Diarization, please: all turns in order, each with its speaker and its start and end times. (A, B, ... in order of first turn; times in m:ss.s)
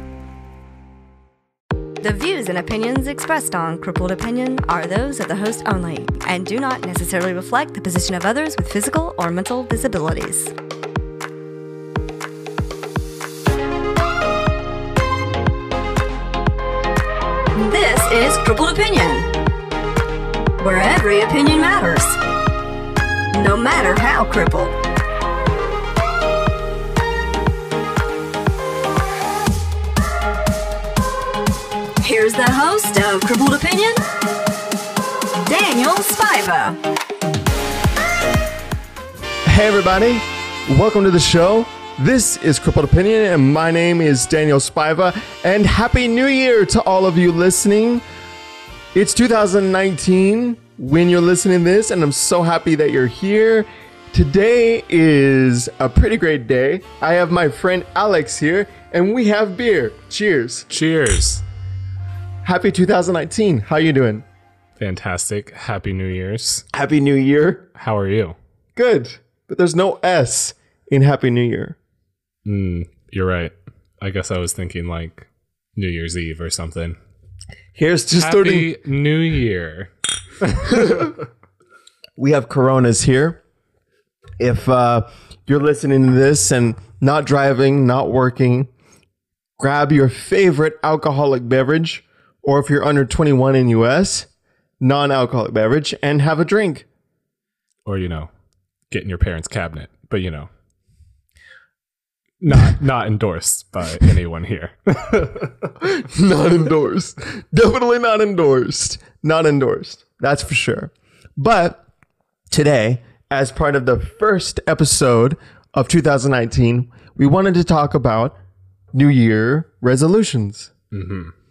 0:02.0-0:10.5 A
0:17.5-0:19.3 A
0:20.6-0:22.2 A
0:23.3-0:24.8 A
0:32.0-0:34.0 A
0:35.4-0:36.8 A
0:39.5-0:48.0 B
0:48.9-1:00.7 B
1:00.7-1:01.4 C
1:02.4-1:04.2 B
1:04.8-1:06.6 C
1:06.7-1:07.7 B
1:07.8-1:08.4 C
1:08.8-1:11.8 B
1:12.4-1:17.0 C
1:17.8-1:18.7 B
1:18.2-1:21.2 C
1:20.7-1:21.1 B
1:22.2-1:23.4 B
1:24.4-1:28.7 B
1:29.6-1:34.3 B
1:34.8-1:36.9 B
1:37.8-1:38.3 C
1:38.9-1:40.5 C
1:42.4-1:45.7 C
1:45.8-1:51.8 B
1:52.5-1:58.4 B
1:58.9-2:00.7 B
2:00.9-2:01.3 C